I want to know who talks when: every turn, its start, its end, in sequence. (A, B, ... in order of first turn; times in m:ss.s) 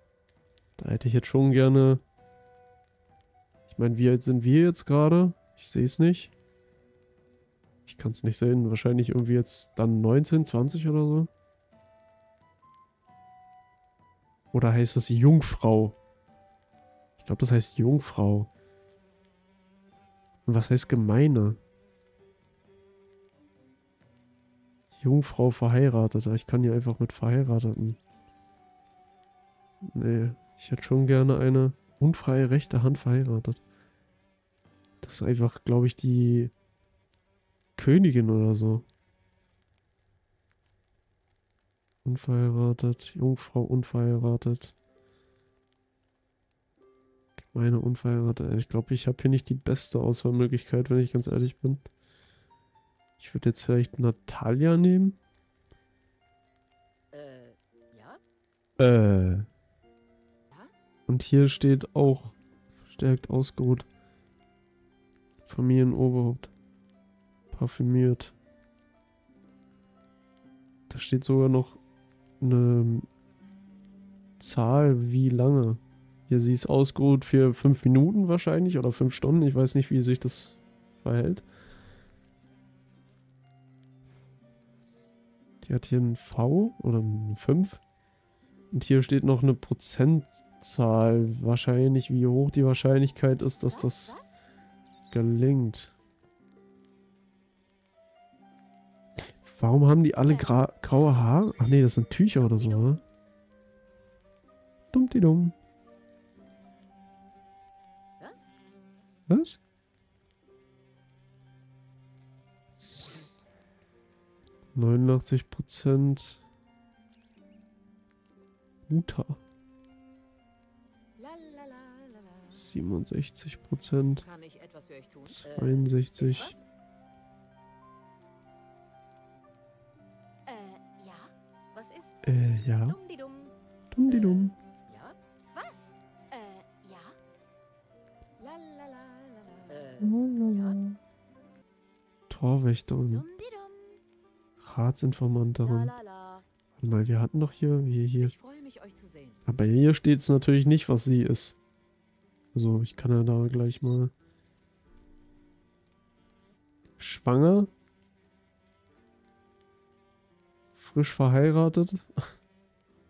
0:00.8-0:02.0 A
0:03.7-0:06.3 A
0:07.9-0:11.3 A
0:14.5-0:16.0 A
0:17.2-0:18.5 A
0:20.4-0:21.6 A
0:25.0-0:28.0 A
0:29.8-0:33.6 A
0:35.0-0:36.5 A
0:37.8-0:38.8 A
0:42.0-0:44.7 A
0:47.4-0:51.8 A
0:53.2-0:55.2 A
0:57.1-0:58.2 B
0:58.8-0:59.5 A
1:01.1-1:02.4 A
1:02.9-1:03.9 A
1:05.4-1:06.5 A
1:07.5-1:08.3 A
1:10.9-1:11.8 A
1:12.4-1:13.1 A
1:14.4-1:21.4 A
1:25.6-1:27.8 A
1:28.7-1:34.2 A
1:33.6-1:34.4 B
1:35.1-1:35.9 A
1:39.4-1:43.0 A
1:40.2-1:40.5 B
1:42.5-1:43.0 B
1:44.9-1:45.5 A
1:48.2-1:48.5 B
1:49.3-1:49.6 A
1:54.7-1:56.4 A
1:58.9-1:59.4 A
2:01.2-2:02.7 C
2:02.5-2:04.2 A
2:04.2-2:05.4 C
2:05.3-2:06.5 A
2:05.4-2:06.6 B
2:10.4-2:12.2 B
2:12.2-2:13.0 A
2:12.8-2:13.5 B
2:13.9-2:14.5 A
2:14.1-2:17.2 B
2:18.4-2:20.7 C
2:19.7-2:20.8 B
2:20.0-2:21.0 A
2:22.3-2:23.2 A
2:23.1-2:24.0 B
2:24.6-2:25.9 A
2:25.6-2:26.4 B
2:26.8-2:28.3 A
2:28.2-2:29.4 C
2:29.4-2:31.6 A
2:32.5-2:34.1 A
2:37.0-2:37.7 A
2:40.7-2:42.2 A